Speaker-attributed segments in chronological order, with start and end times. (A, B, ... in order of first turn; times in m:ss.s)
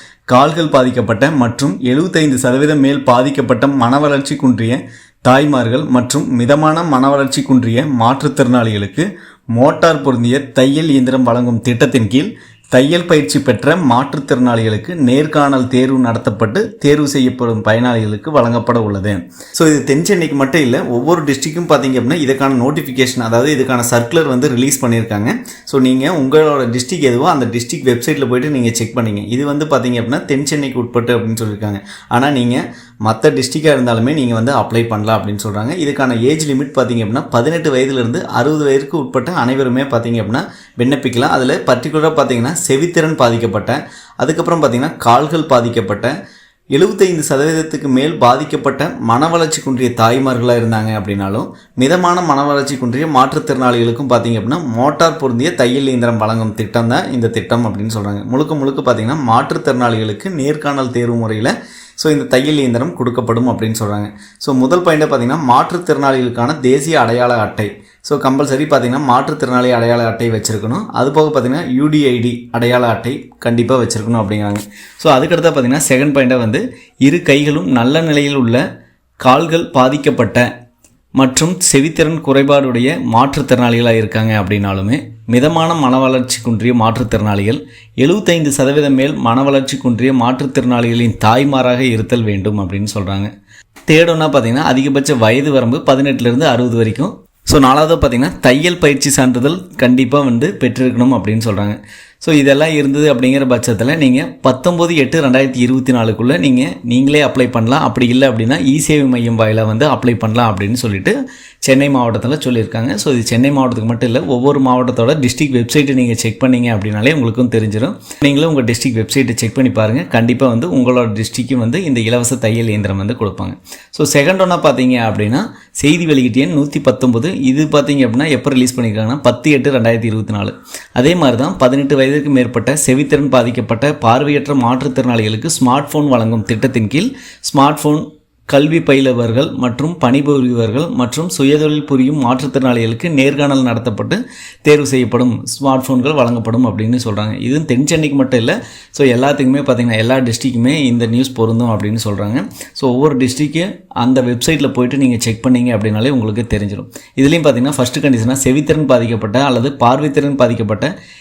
0:00.3-0:46.1 A
0:46.8-1:18.6 A
1:19.2-1:20.5 A
1:21.2-1:33.3 A
1:33.9-1:51.1 A
1:51.6-2:40.9 A